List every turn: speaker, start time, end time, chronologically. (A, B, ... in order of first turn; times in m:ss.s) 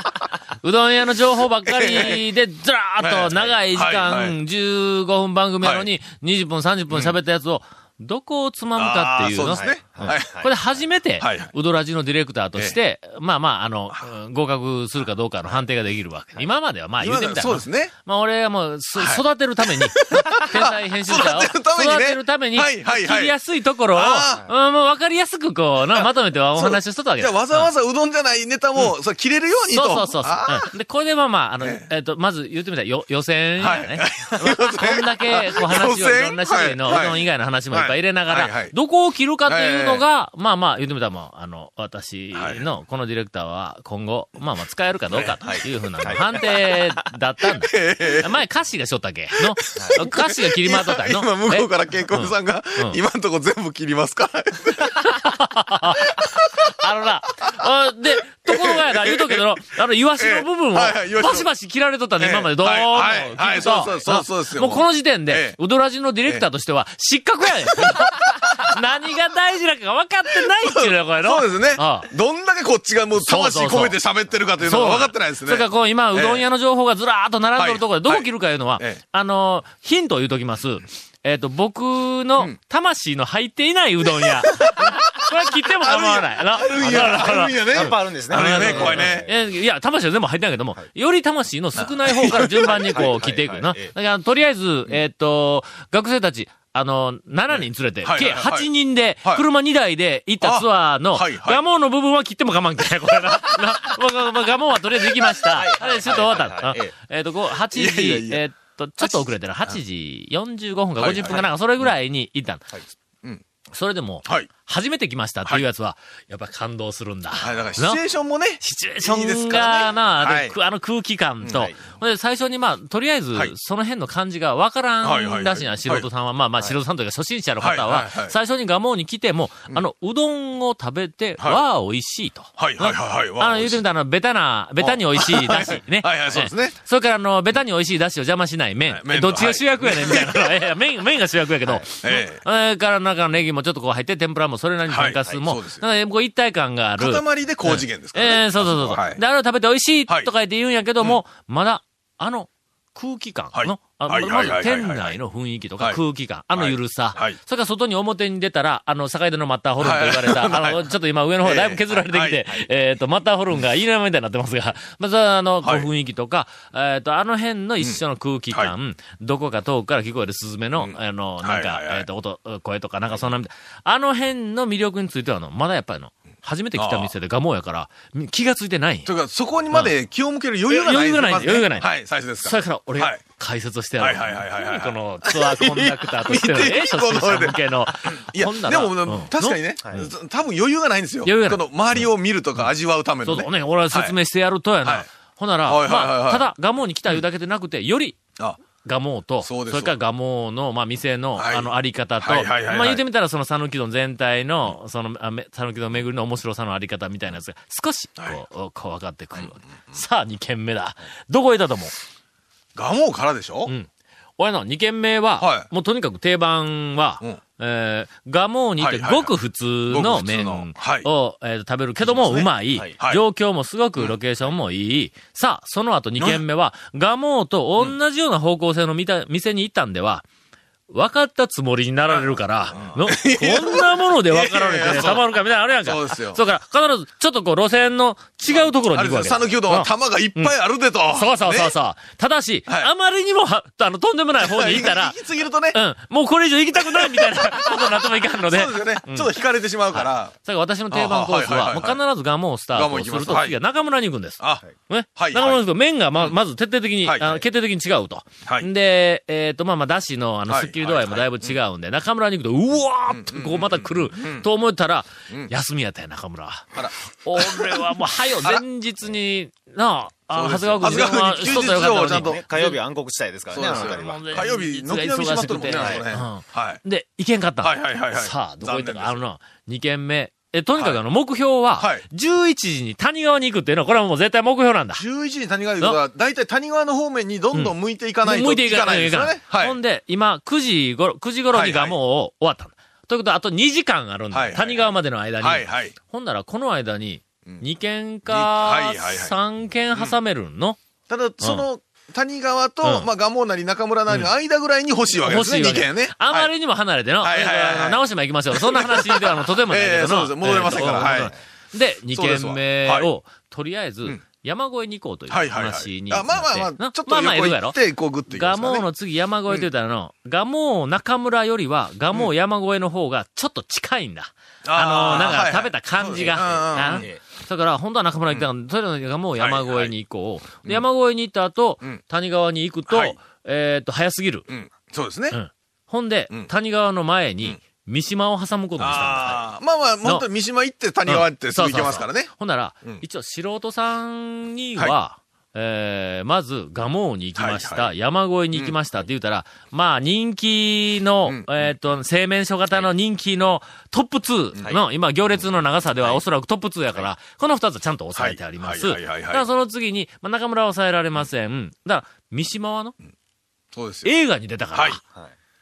0:00.6-0:27.7 A
0:01.6-0:02.2 B
0:03.0-0:04.4 B
0:05.6-0:05.9 B
0:08.8-0:10.4 B
0:09.5-0:10.5 C
0:11.2-0:11.5 B
0:17.0-0:17.9 B
0:19.0-0:23.3 B
0:23.9-0:24.4 B
0:25.9-0:30.7 B
0:29.7-0:53.0 A
0:31.6-0:31.9 B
0:33.6-0:38.8 B
0:39.4-0:40.0 B
0:42.3-0:42.6 B
0:45.1-0:46.6 B
0:47.6-0:48.4 B
0:49.6-0:55.2 B
0:49.8-0:50.0 C
0:54.9-1:12.1 A
0:56.1-0:56.7 B
0:58.4-0:59.5 B
1:00.2-1:01.5 B
1:02.2-1:05.6 B
1:07.7-1:08.7 B
1:10.5-1:16.4 B
1:13.1-1:14.0 A
1:14.6-1:52.7 A
1:17.6-1:19.0 B
1:24.2-1:25.2 B
1:25.8-1:29.3 B
1:26.9-1:29.3 C
1:31.8-1:33.1 B
1:32.6-1:33.9 C
1:38.0-1:38.7 B
1:40.4-1:41.6 B
1:45.5-1:46.9 C
1:47.7-1:48.4 B
1:51.0-1:51.9 B
1:53.7-1:58.0 A
1:57.4-2:00.6 B
1:58.6-2:59.1 A
2:05.0-2:06.1 B
2:07.6-2:08.3 B
2:11.4-2:11.6 B
2:12.6-2:13.8 B
2:14.8-2:16.8 B
2:18.9-2:20.5 B
2:22.0-2:22.4 B
2:24.9-2:25.8 B
2:27.0-2:29.2 B
2:33.5-2:35.2 B
2:36.5-2:37.4 B
2:39.8-2:42.6 B
2:45.6-2:45.9 B
2:50.8-2:52.1 B
2:56.8-2:57.1 B
2:59.1-3:03.2 B
3:00.7-3:01.9 A
3:02.4-3:09.6 A
3:04.0-3:14.2 B
3:09.8-3:10.1 C
3:11.2-3:12.7 A
3:13.2-3:18.2 A
3:15.6-3:16.5 B
3:18.8-3:31.9 A
3:19.4-3:19.9 B
3:21.4-3:23.0 B
3:29.3-3:30.0 B
3:32.7-3:33.7 B
3:33.7-3:50.2 A
3:35.4-3:35.7 B
3:38.8-3:39.3 B
3:39.9-3:41.1 B
3:42.0-3:43.2 B
3:46.2-3:46.4 B
3:50.9-4:00.5 A
3:52.1-3:55.3 B
3:55.8-3:56.4 B
3:58.5-4:01.7 B
4:01.1-4:05.2 A
4:04.4-4:05.8 B
4:05.7-4:09.3 A
4:06.8-4:10.3 B
4:09.9-4:26.7 A
4:10.9-4:12.0 B
4:12.7-4:13.6 B
4:14.4-4:14.6 B
4:15.2-4:15.6 B
4:17.0-4:17.4 B
4:20.5-4:21.6 B
4:23.1-4:24.5 B
4:26.7-4:28.6 B
4:27.2-4:32.8 A
4:30.3-4:32.4 B
4:31.4-4:34.5 C
4:33.5-4:36.8 B
4:33.6-4:45.0 A
4:35.7-4:36.1 C
4:37.6-4:39.2 B
4:41.8-4:42.0 B
4:45.0-4:49.8 B
4:48.2-5:00.8 A
4:51.5-4:52.0 B
4:54.3-4:55.9 B
4:58.2-4:59.3 B
5:01.1-5:06.5 B
5:01.4-5:01.7 A
5:02.8-5:03.1 A
5:05.2-5:17.8 A
5:07.2-5:08.0 B
5:08.5-5:11.3 B
5:10.7-5:11.3 C
5:12.1-5:13.1 B
5:15.3-5:18.9 B
5:18.3-5:34.5 A
5:24.6-5:27.1 B
5:26.7-5:27.2 C
5:29.4-5:29.9 B
5:32.9-5:33.2 B
5:34.5-5:35.4 B
5:35.3-5:39.4 A
5:38.8-5:43.0 B
5:41.1-6:02.9 A
5:47.4-5:47.9 B
5:51.2-5:51.7 B
5:58.2-5:59.4 B
6:03.7-6:04.1 B
6:04.0-6:05.0 A
6:04.7-6:05.0 B